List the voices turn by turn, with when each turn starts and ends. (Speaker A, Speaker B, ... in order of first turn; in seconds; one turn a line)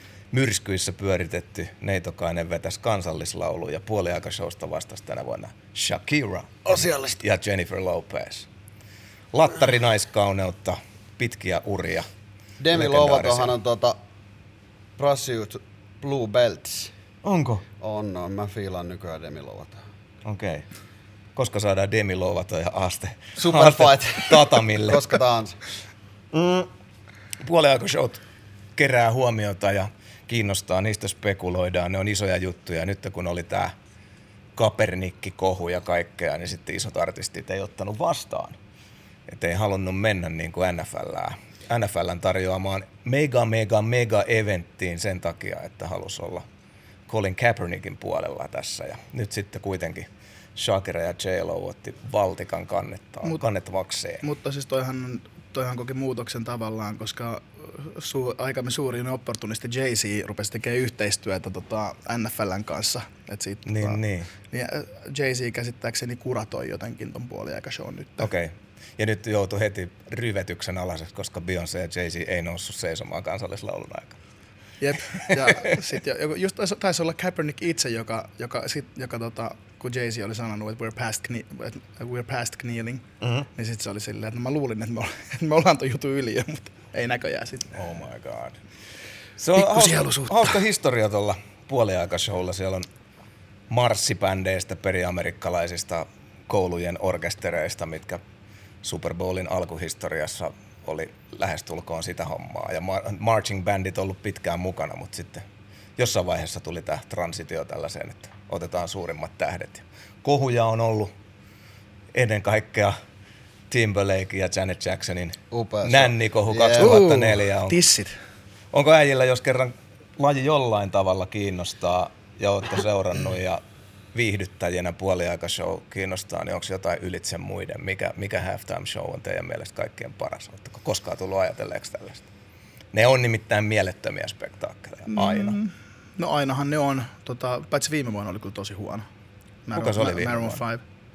Speaker A: 0.3-8.5
Speaker B: 6.7-7.2
Speaker A: 9.3-12.1
Speaker B: 12.6-14.0
Speaker A: 12.7-13.5
Speaker B: 15.0-16.9
Speaker A: 17.2-17.6
Speaker B: 17.8-19.8
Speaker A: 20.2-20.6
Speaker A: 21.4-25.2
Speaker B: 23.4-25.6
Speaker A: 26.3-26.7
Speaker A: 27.4-28.2
Speaker A: 28.8-33.7
Speaker A: 34.5-38.5
Speaker A: 39.3-46.4
Speaker A: 47.1-54.2
Speaker C: 54.2-68.3
Speaker A: 63.6-64.3
Speaker A: 68.2-74.2
Speaker C: 74.8-83.0
Speaker A: 75.1-75.7
Speaker A: 83.2-83.5
Speaker C: 83.5-87.7
Speaker A: 87.7-88.6
Speaker A: 89.4-92.9
Speaker C: 89.6-90.6
Speaker A: 93.7-98.2
Speaker A: 98.8-105.4
Speaker A: 106.0-111.1
Speaker A: 112.1-113.0
Speaker A: 113.7-117.8
Speaker B: 115.5-117.0
Speaker C: 116.8-118.1
Speaker A: 118.7-123.6
Speaker A: 124.1-132.2
Speaker A: 132.9-135.6
Speaker C: 135.1-139.0
Speaker C: 139.7-140.8
Speaker A: 139.7-140.6